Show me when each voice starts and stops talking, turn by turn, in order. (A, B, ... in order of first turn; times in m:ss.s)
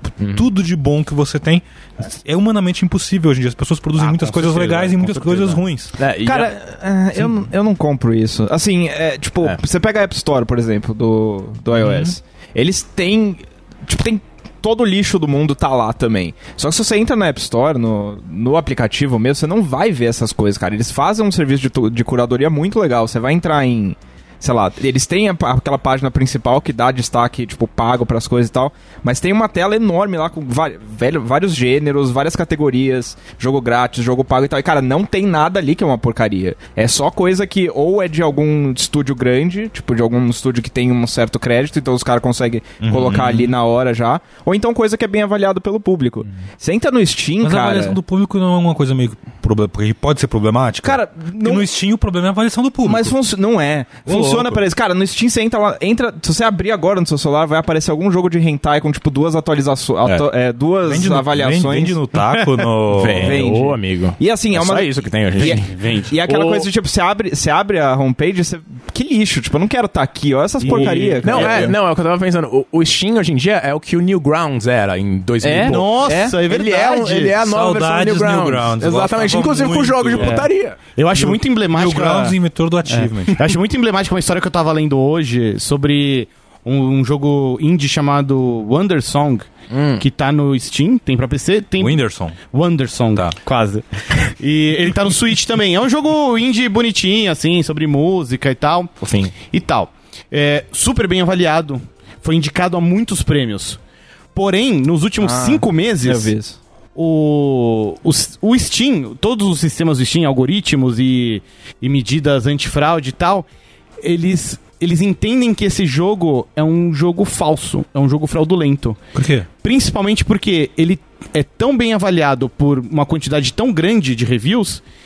0:00.2-0:00.4 A
0:00.2-0:05.9 B
0:04.0-0:06.5 A
0:06.2-0:48.0 C
0:11.8-0:12.1 B
0:42.8-0:43.5 B
0:47.4-0:53.1 B
0:50.8-0:51.7 C
0:52.8-1:02.0 C
0:54.0-0:54.6 B
1:00.8-1:03.4 B
1:02.9-1:06.7 A
1:03.0-1:11.7 C
1:05.4-1:06.1 D
1:10.6-1:11.7 D
1:10.6-1:20.8 A
1:15.4-1:16.4 C
1:15.5-1:17.3 D
1:17.4-1:20.4 B
1:20.2-1:22.4 D
1:21.1-1:23.5 B
1:22.9-1:43.8 D
1:29.7-1:30.0 A
1:31.8-1:32.4 B
1:39.0-1:39.3 A
1:44.3-1:46.3 D
1:45.2-1:46.6 C
1:46.9-1:53.4 D
1:54.0-1:59.0 D
1:59.1-1:59.5 B
1:59.6-2:04.8 D